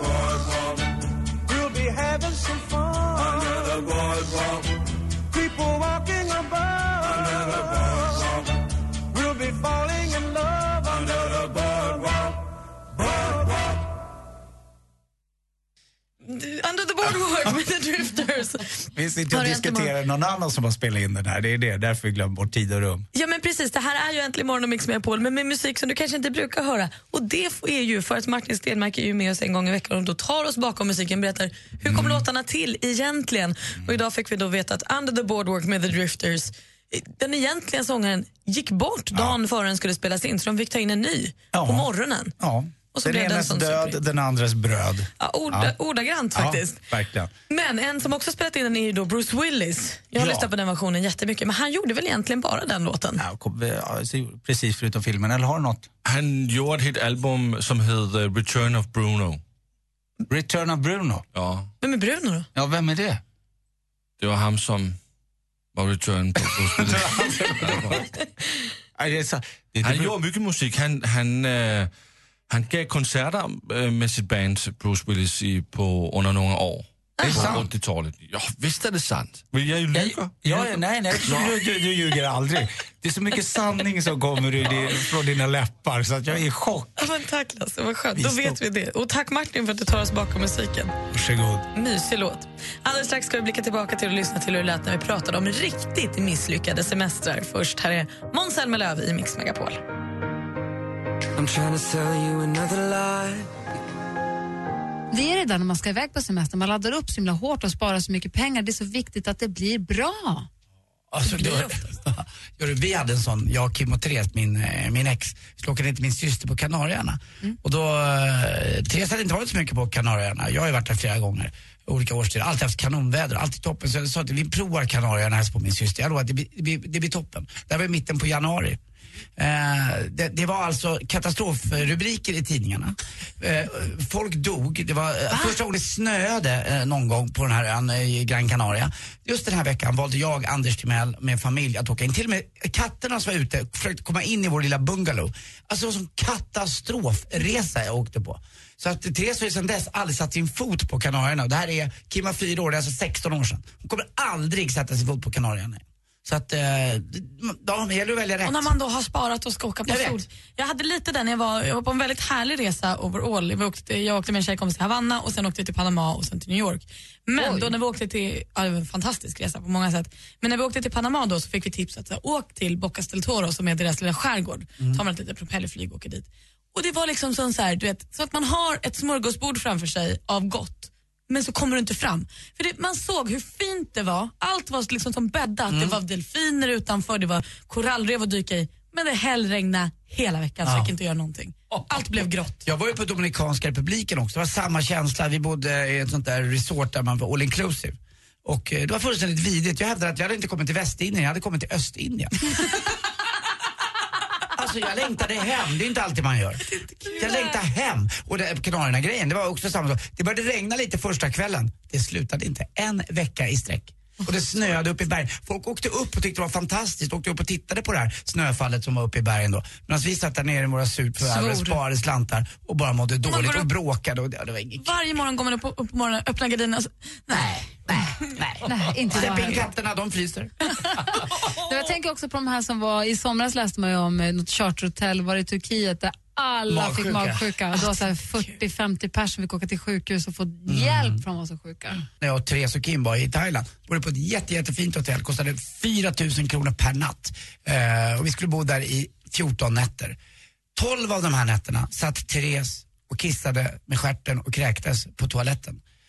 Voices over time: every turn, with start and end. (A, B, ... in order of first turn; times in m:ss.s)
0:01.5-0:04.0 A
0:05.3-0:07.9 A
0:09.2-0:11.2 A
0:16.2-0:19.9 B
0:18.9-0:23.0 C
0:23.1-0:42.3 B
0:31.8-0:32.2 C
0:41.5-0:45.7 C
0:42.9-0:44.0 B
0:45.2-0:46.9 B
0:46.3-0:47.3 C
0:47.5-0:53.2 B
0:50.2-0:50.5 C
0:53.2-0:55.9 C
0:56.0-0:59.4 D
1:00.3-1:01.2 C
1:01.3-1:01.7 D
1:01.8-1:02.5 B
1:02.5-1:03.2 C
1:04.2-1:05.0 D
1:05.7-1:08.1 D
1:06.4-1:08.0 C
1:09.0-1:10.2 C
1:09.8-1:11.9 D
1:12.5-1:20.7 D
1:17.2-1:17.6 B
1:17.2-1:17.7 C
1:19.9-1:27.1 C
1:21.2-1:21.5 D
1:27.0-1:30.9 B
1:28.2-1:28.6 C
1:31.1-1:31.6 C
1:31.7-1:39.8 B
1:41.4-1:43.3 E
1:45.1-1:50.5 F
1:51.1-2:08.8 G
1:51.2-1:51.8 B
2:09.4-2:38.7 G
2:38.4-3:12.6 B
2:39.9-2:40.2 G
3:05.7-3:06.0 G
3:10.6-3:10.9 G
3:11.7-3:12.1 G
3:12.6-3:22.3 G
3:24.5-3:44.9 G
3:26.6-3:27.6 B
3:41.2-3:41.8 B
3:43.2-3:43.7 B
3:44.8-3:47.6 B
3:47.3-3:50.5 G
3:48.6-3:49.7 F
3:50.7-4:02.0 F
3:51.3-3:51.8 B
3:56.7-3:57.6 G
3:57.7-3:58.6 B
4:00.7-4:01.2 G
4:02.2-4:10.2 G
4:10.8-4:15.8 G